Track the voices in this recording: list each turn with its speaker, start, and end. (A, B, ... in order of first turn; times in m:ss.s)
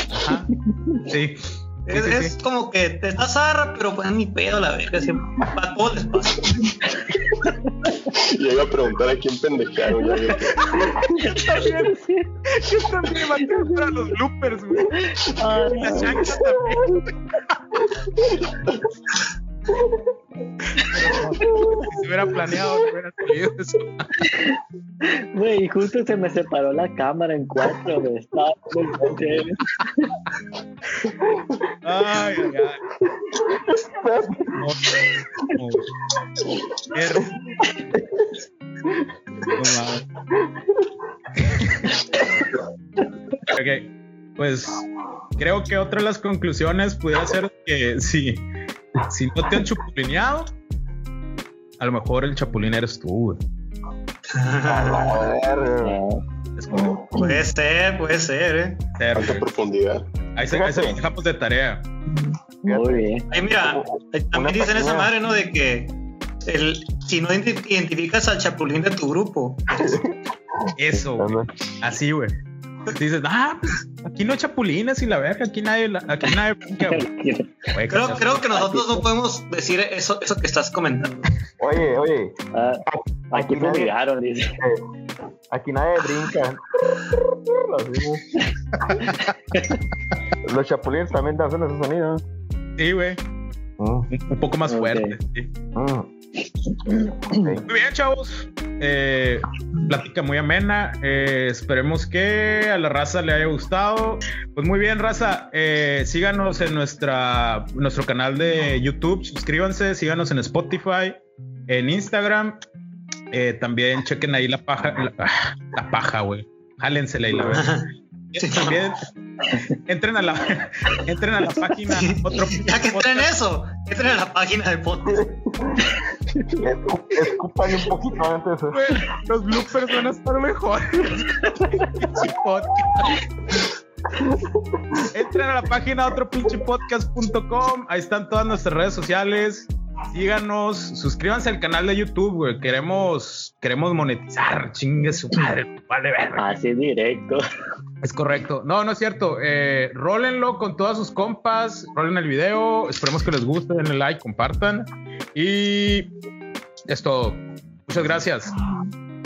0:00.1-0:00.5 A
0:00.6-0:01.1 B
0:01.1-0:02.4 A
0:01.9-0:06.6 C
0:06.6-0:08.1 B
0:08.1-0:10.6 D
0:10.0-0:12.3 B
0:11.1-0:11.9 A
0:12.5-0:17.0 A
0:13.1-0:13.9 B
0:14.9-0:16.4 B
0:20.8-0:24.2 A
0:21.5-0:21.8 E
0:24.2-0:24.5 B
0:25.0-0:30.2 B
0:31.3-0:31.6 E
0:31.8-0:32.8 A
0:33.3-0:34.6 E
0:34.6-0:35.8 A
0:36.9-0:37.4 A
0:37.9-0:38.3 E
0:39.6-0:40.0 A
0:40.4-0:40.8 E
0:41.5-0:41.8 A
0:43.5-0:44.8 A
0:45.4-0:48.5 A
0:49.0-0:50.5 A
0:51.8-0:53.4 A
0:54.3-0:55.3 C
0:54.7-0:56.0 E
0:55.8-0:56.2 B
0:56.6-0:57.1 A
0:57.1-0:58.8 C
0:59.0-0:59.5 A
0:59.1-1:00.0 D
1:00.4-1:01.8 A
1:00.5-1:01.0 E
1:02.6-1:03.2 B
1:02.6-1:05.1 E
1:03.3-1:10.0 C
1:09.8-1:11.5 E
1:10.8-1:12.3 A
1:13.0-1:17.1 A
1:16.8-1:19.1 B
1:17.7-1:18.5 A
1:17.9-1:21.2 C
1:21.6-1:22.4 E
1:22.5-1:24.6 B
1:22.9-1:23.9 E
1:25.5-1:28.5 E
1:28.4-1:29.8 B
1:30.4-1:32.2 E
1:32.8-1:33.2 A
1:33.8-1:34.1 E
1:34.1-1:35.5 A
1:34.7-1:35.2 B
1:35.7-1:36.1 E
1:36.8-1:37.6 B
1:37.3-1:37.7 E
1:37.7-1:52.6 A
1:53.3-1:57.8 A
1:57.5-1:57.9 C
1:58.3-1:59.0 A
1:58.4-1:58.8 C
1:59.9-2:03.3 A
2:01.9-2:05.3 C
2:05.1-2:05.9 E
2:06.6-2:09.0 E
2:08.7-2:13.2 A
2:14.2-2:15.1 E
2:15.1-2:26.6 A
2:26.4-2:27.4 B
2:28.0-2:36.1 A
2:36.9-2:38.6 A